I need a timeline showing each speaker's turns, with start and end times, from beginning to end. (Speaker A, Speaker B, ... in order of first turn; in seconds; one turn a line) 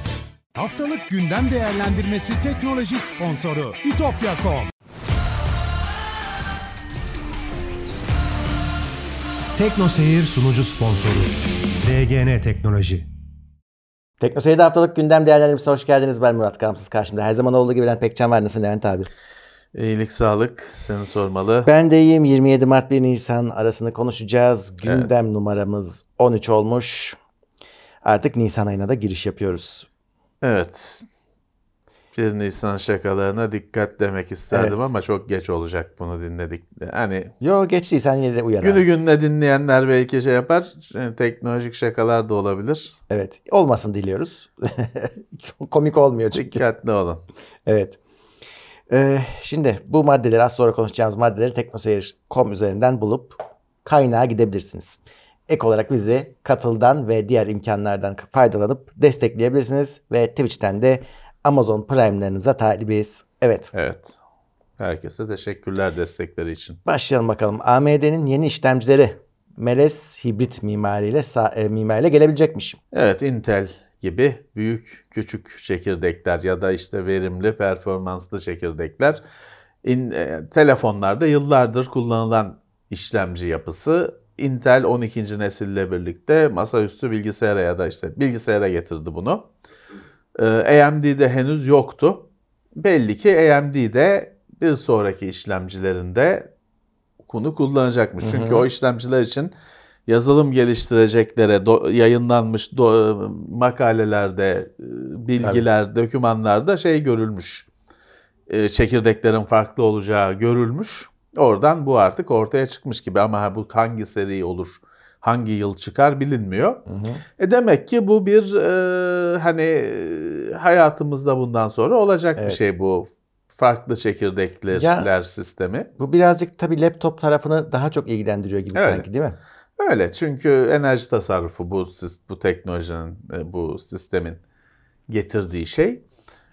Speaker A: 0.5-4.7
Speaker A: 9.6-13.1
Speaker B: 14.2-19.1
Speaker C: 19.7-21.7
Speaker B: 21.7-27.2
Speaker C: 24.8-25.1
Speaker B: 28.0-29.9
Speaker C: 30.4-31.1
Speaker C: 32.1-37.3
Speaker B: 37.4-38.8
Speaker C: 38.6-43.0
Speaker B: 43.1-46.6
Speaker C: 46.3-47.2
Speaker B: 47.7-48.0
Speaker B: 48.9-63.7
Speaker C: 63.7-64.2
Speaker C: 64.8-66.8
Speaker B: 66.9-72.8
Speaker C: 72.9-79.2
Speaker C: 79.8-89.5
Speaker C: 90.4-92.2
Speaker C: 92.8-96.5
Speaker C: 97.2-99.5
Speaker B: 98.2-98.7
Speaker C: 100.1-107.7
Speaker C: 108.5-116.8
Speaker B: 116.9-117.2
Speaker C: 117.4-125.9
Speaker B: 122.4-122.6
Speaker B: 124.7-125.1
Speaker B: 126.0-129.4
Speaker C: 128.7-129.1
Speaker C: 129.8-134.4
Speaker C: 135.1-136.0